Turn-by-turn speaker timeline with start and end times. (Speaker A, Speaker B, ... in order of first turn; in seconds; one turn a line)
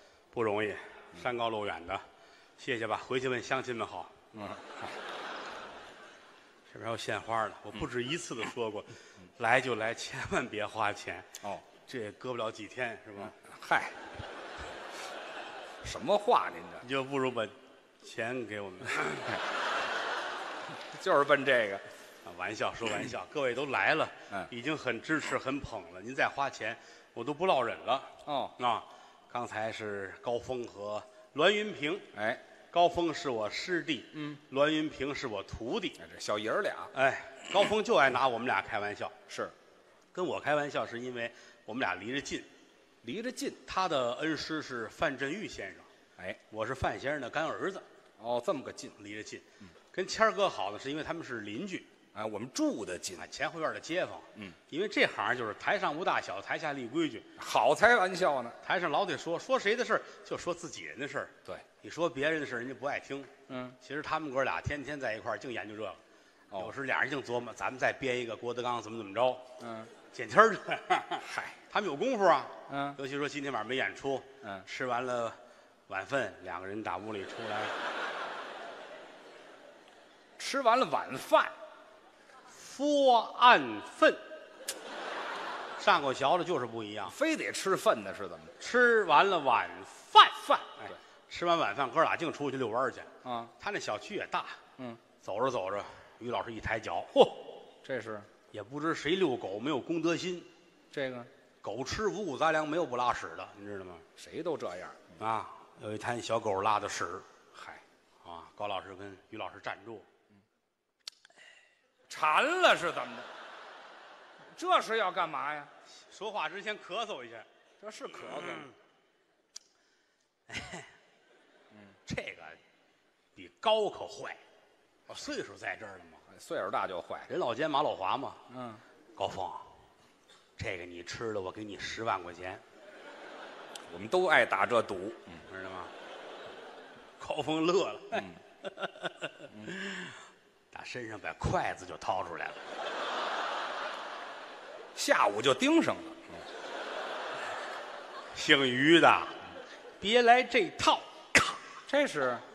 Speaker A: 0.3-2.0
Speaker A: 2.6-4.1
Speaker B: 4.3-4.9
Speaker A: 6.7-13.3
Speaker B: 13.2-14.0
Speaker B: 15.8-16.8
Speaker A: 16.8-19.4
Speaker B: 20.8-21.8
Speaker A: 22.2-32.1
Speaker B: 28.2-28.5
Speaker B: 32.1-32.4
Speaker A: 32.7-36.0
Speaker B: 36.0-36.9
Speaker A: 36.9-39.1
Speaker B: 39.3-39.5
Speaker A: 40.1-42.5
Speaker B: 43.0-43.6
Speaker A: 43.6-45.9
Speaker A: 46.5-47.8
Speaker B: 48.2-49.0
Speaker A: 49.0-51.9
Speaker B: 52.1-53.3
Speaker A: 53.2-57.3
Speaker B: 57.4-58.6
Speaker A: 58.6-66.0
Speaker B: 63.5-63.8
Speaker A: 66.5-69.4
Speaker B: 69.6-69.9
Speaker A: 70.1-75.4
Speaker B: 71.2-71.6
Speaker B: 72.7-73.0
Speaker A: 75.9-77.7
Speaker B: 80.4-81.5
Speaker A: 82.5-84.2
Speaker A: 85.8-87.1
Speaker B: 87.1-88.5
Speaker A: 88.6-94.6
Speaker B: 93.2-93.5
Speaker A: 95.2-97.4
Speaker B: 97.8-98.3
Speaker A: 98.5-100.5
Speaker B: 100.9-101.3
Speaker A: 101.6-104.0
Speaker B: 104.2-105.0
Speaker A: 105.2-107.2
Speaker B: 107.5-107.8
Speaker A: 108.2-110.0
Speaker B: 112.1-113.3
Speaker B: 114.5-115.7
Speaker A: 116.1-117.5
Speaker B: 117.8-118.7
Speaker A: 118.2-118.7
Speaker A: 120.5-120.9
Speaker A: 122.0-122.6
Speaker A: 123.3-124.4
Speaker A: 125.1-126.2
Speaker B: 126.3-127.3
Speaker A: 127.3-128.4
Speaker B: 128.5-128.8
Speaker A: 129.2-129.7
Speaker A: 130.6-132.6
Speaker B: 133.9-135.4
Speaker A: 135.5-135.9
Speaker A: 137.2-140.2
Speaker A: 140.7-142.6
Speaker B: 144.9-146.4
Speaker A: 148.3-149.3
Speaker A: 150.0-151.6
Speaker B: 151.9-152.4